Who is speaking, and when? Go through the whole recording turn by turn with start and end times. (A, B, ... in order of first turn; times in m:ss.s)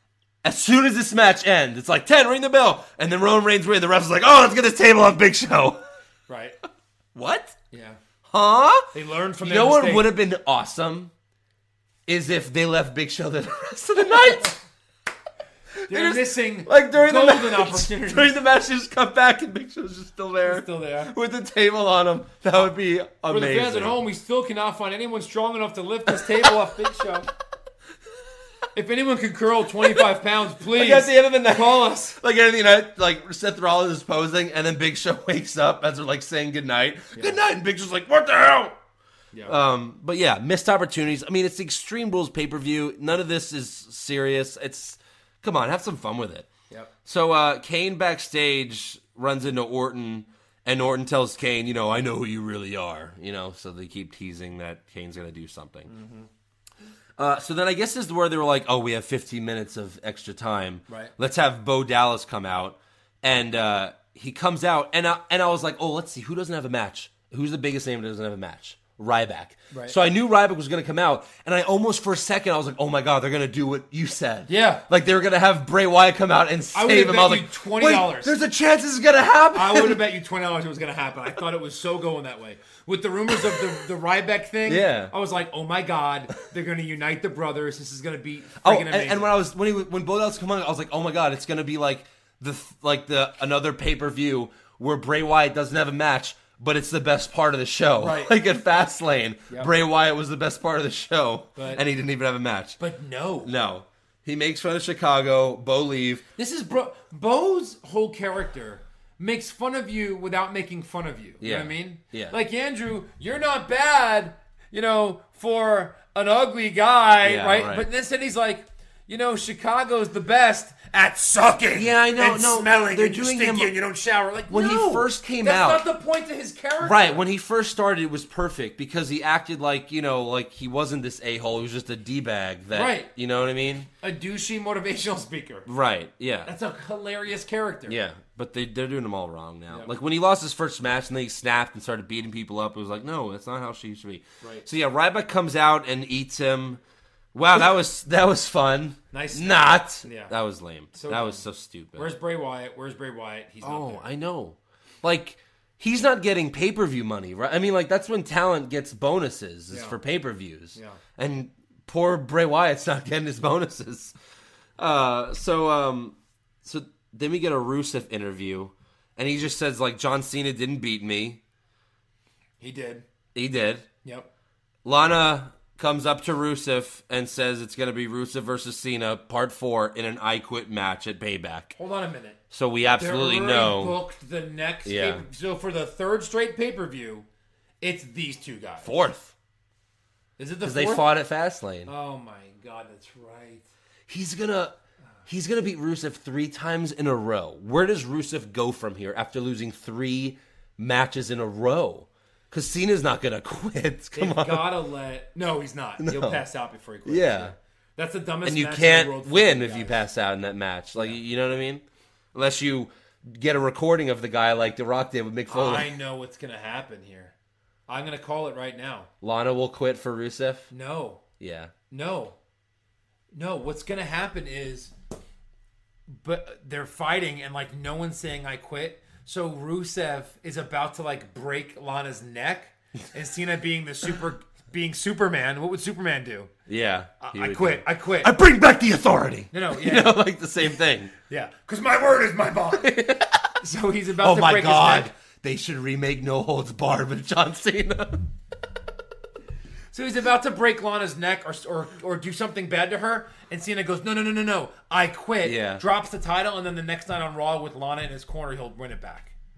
0:00.4-0:05.8 A
0:06.3-0:06.6 B
0:07.1-0:07.6 A
0:07.7-0:08.0 B
0:08.3-0:11.1 A
0:08.9-0:10.1 B
0:12.1-0:14.6 A
0:15.8-0:24.0 A
0:15.9-0:18.3 B
0:20.4-0:21.1 B
0:23.3-0:27.3 B
0:28.7-0:32.2 B
0:30.7-0:38.8 A
0:37.1-0:37.4 B
0:39.4-0:46.5 A
0:47.0-0:55.9 A
0:55.9-0:56.3 B
0:57.2-1:20.0 A
1:09.7-1:10.0 B
1:14.5-1:14.8 B
1:16.7-1:18.3 B
1:19.5-1:29.3 B
1:24.6-1:25.1 A
1:28.6-1:42.8 A
1:38.0-1:38.3 B
1:41.6-1:41.8 B
1:42.8-1:43.5 B
1:43.4-1:46.2 A
1:46.4-2:07.3 B
1:51.4-1:52.4 A
1:57.2-1:57.9 A
2:01.7-2:03.7 A
2:04.5-2:05.8 A
2:06.8-2:13.9 A
2:12.7-2:13.1 B
2:14.0-2:15.7 B
2:15.6-2:16.5 A
2:16.4-2:18.0 B
2:17.9-2:26.8 A
2:24.4-2:24.6 B
2:27.3-2:32.1 A
2:29.1-2:30.3 B
2:30.9-2:34.0 B
2:33.6-2:44.1 A
2:39.7-2:40.0 B
2:44.8-2:51.4 A
2:52.6-2:53.0 B
2:53.3-2:53.9 A
2:54.8-3:01.7 A
3:01.8-3:02.4 B
3:02.5-3:04.0 A
3:03.0-3:07.2 B
3:04.8-3:05.2 A
3:07.8-3:09.0 B
3:08.8-3:09.3 A
3:10.4-3:11.1 B
3:10.6-3:11.9 A
3:11.8-3:13.7 B
3:14.1-3:14.8 A
3:15.3-3:24.7 A
3:24.1-3:30.0 B
3:26.0-3:26.4 A
3:27.0-3:27.5 A
3:28.4-3:31.8 A
3:32.3-3:35.9 A
3:35.5-3:37.3 B
3:37.9-3:39.1 B
3:39.2-3:40.7 A
3:40.7-3:41.2 B
3:41.4-3:41.7 A
3:41.9-3:42.4 B
3:43.3-3:44.9 B
3:46.1-3:56.5 B
3:56.7-4:01.1 A
3:57.2-3:58.3 B
3:59.5-4:00.2 B
4:01.3-4:02.9 B
4:02.8-4:03.6 A
4:03.6-4:05.1 B
4:04.2-4:08.2 A
4:09.9-4:19.3 B
4:15.4-4:15.8 A